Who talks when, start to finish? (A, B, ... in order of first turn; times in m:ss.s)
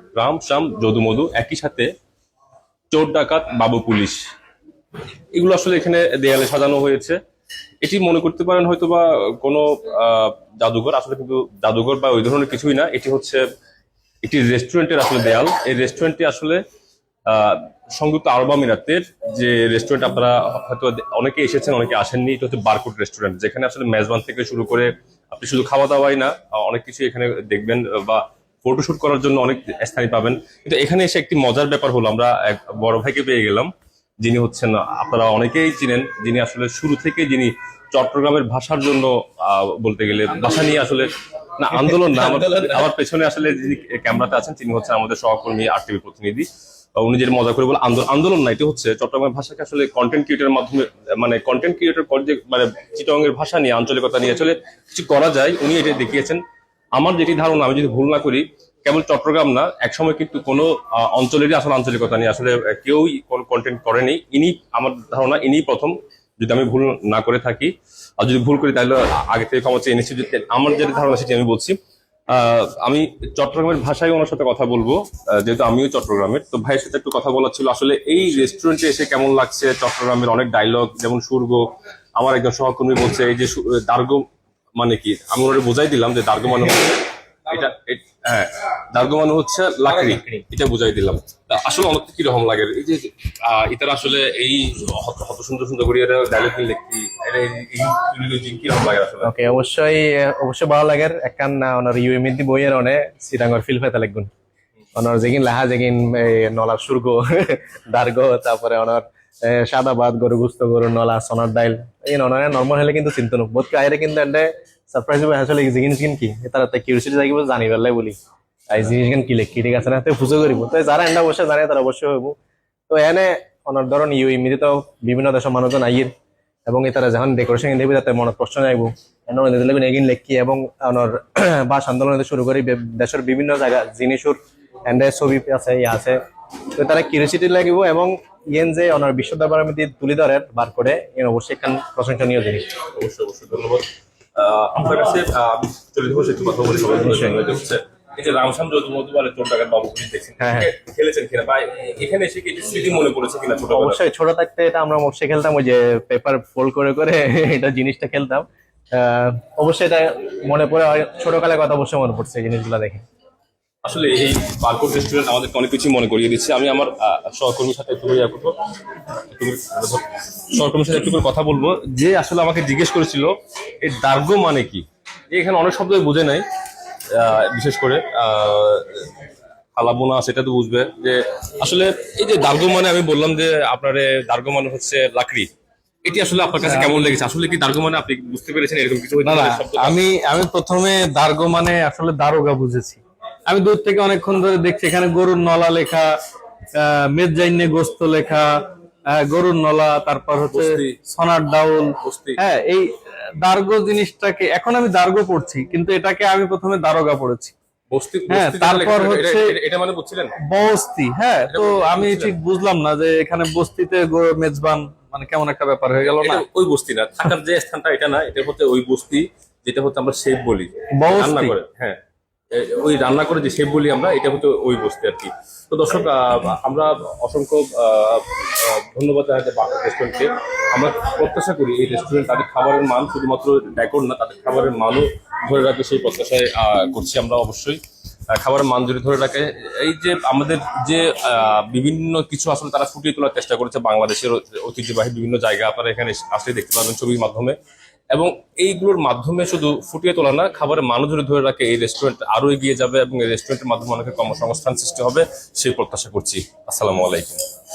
0:00.2-0:01.9 A
0:02.9-0:04.2 A
0:05.3-0:07.2 A
0:07.8-0:13.4 A
0:14.2-0:16.6 A
0:17.3-0:33.7 A
0:34.2-0:56.4 A
0:41.8-0:42.8 B
0:57.0-1:11.8 A
1:12.3-1:21.7 A
1:22.2-1:24.2 A
1:24.8-1:39.3 A
1:39.2-1:44.3 B
1:44.9-1:58.1 B
1:58.7-2:02.3 B
2:02.9-2:06.1 B
2:06.7-2:16.2 B
2:16.8-2:22.6 B
2:22.9-2:34.0 A
2:27.0-2:27.4 B
2:30.4-2:30.7 B
2:33.7-2:43.0 B
2:43.8-2:48.5 A
2:49.3-2:56.4 A
2:57.1-2:59.0 A
2:59.8-3:05.5 A
3:06.0-3:10.0 A
3:09.2-3:16.1 C
3:16.8-3:18.5 C
3:19.1-3:27.5 C
3:20.5-3:21.0 A
3:22.0-3:22.4 A
3:27.9-3:30.4 A
3:28.3-3:29.5 C
3:30.4-3:36.4 C
3:31.5-3:32.3 A
3:36.1-3:42.0 A
3:41.0-3:41.5 C
3:42.5-3:57.8 A
3:58.3-4:07.6 A
4:08.1-4:17.4 A